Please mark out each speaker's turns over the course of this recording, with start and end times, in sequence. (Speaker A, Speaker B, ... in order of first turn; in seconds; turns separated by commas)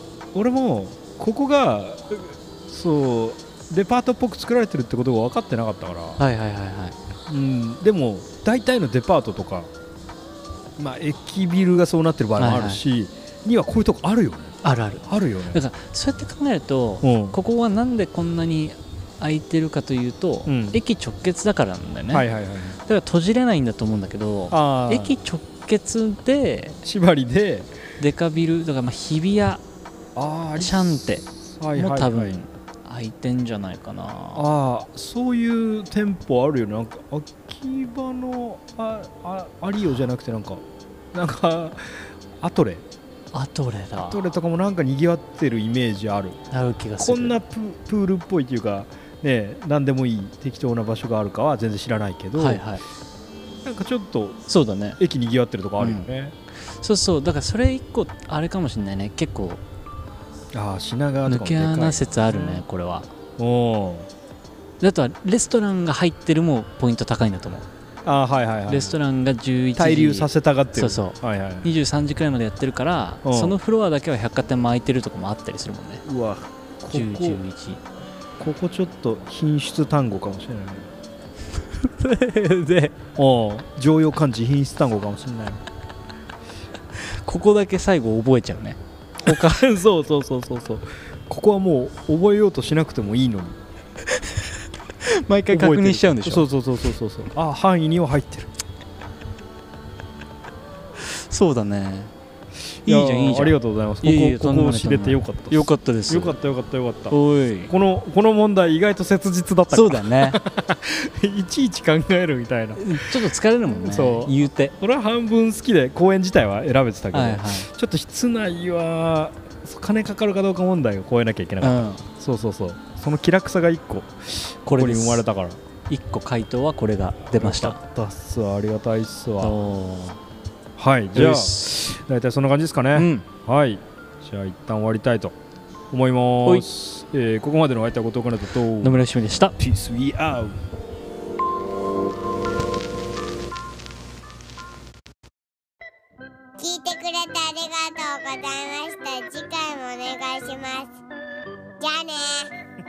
Speaker A: 0.3-6.2, Speaker B: 6.2-7.0, Speaker A: 7.3-9.7, Speaker A: 10.8-15.6, Speaker B: 12.4-12.8, Speaker B: 14.6-22.3, Speaker A: 17.0-17.4, Speaker A: 20.4-20.8, Speaker A: 22.1-22.8, Speaker B: 22.8-26.8, Speaker A: 24.5-25.2, Speaker A: 26.8-27.7, Speaker B: 28.0-29.6, Speaker A: 30.1-32.4, Speaker B: 30.6-34.5, Speaker A: 34.3-42.8, Speaker B: 43.3-44.2, Speaker A: 44.0-46.4, Speaker B: 46.5-47.4, Speaker A: 47.0-52.6, Speaker B: 52.4-52.8, Speaker A: 53.6-54.4, Speaker B: 54.5-55.0, Speaker A: 55.0-56.3, Speaker B: 55.8-56.1, Speaker B: 56.6-59.6, Speaker A: 60.5-62.6, Speaker B: 61.3-63.1, Speaker A: 63.4-64.1, Speaker B: 64.8-67.7, Speaker A: 68.0-69.0, Speaker B: 68.7-76.0, Speaker A: 69.8-71.7, Speaker A: 73.2-73.6, Speaker A: 76.0-77.4, Speaker B: 76.9-77.8, Speaker A: 78.4-80.9, Speaker B: 81.8-83.0, Speaker A: 83.2-85.6, Speaker B: 87.1-89.5, Speaker A: 89.2-93.6, Speaker B: 95.0-96.5, Speaker A: 95.5-98.5, Speaker B: 101.0-102.1, Speaker A: 102.8-107.2, Speaker B: 102.9-106.4, Speaker B: 107.1-107.7, Speaker A: 107.7-113.0, Speaker B: 109.7-110.4, Speaker B: 112.8-114.7, Speaker A: 113.8-125.6, Speaker B: 117.1-117.7, Speaker B: 121.6-122.0, Speaker B: 124.6-125.2, Speaker B: 125.9-127.8, Speaker A: 127.4-129.6, Speaker B: 129.4-130.2, Speaker A: 130.8-135.4, Speaker B: 131.1-131.7, Speaker B: 132.9-133.3, Speaker A: 135.9-139.0, Speaker B: 138.8-139.6, Speaker A: 139.6-140.6, Speaker C: 146.6-151.0, Speaker C: 151.8-152.5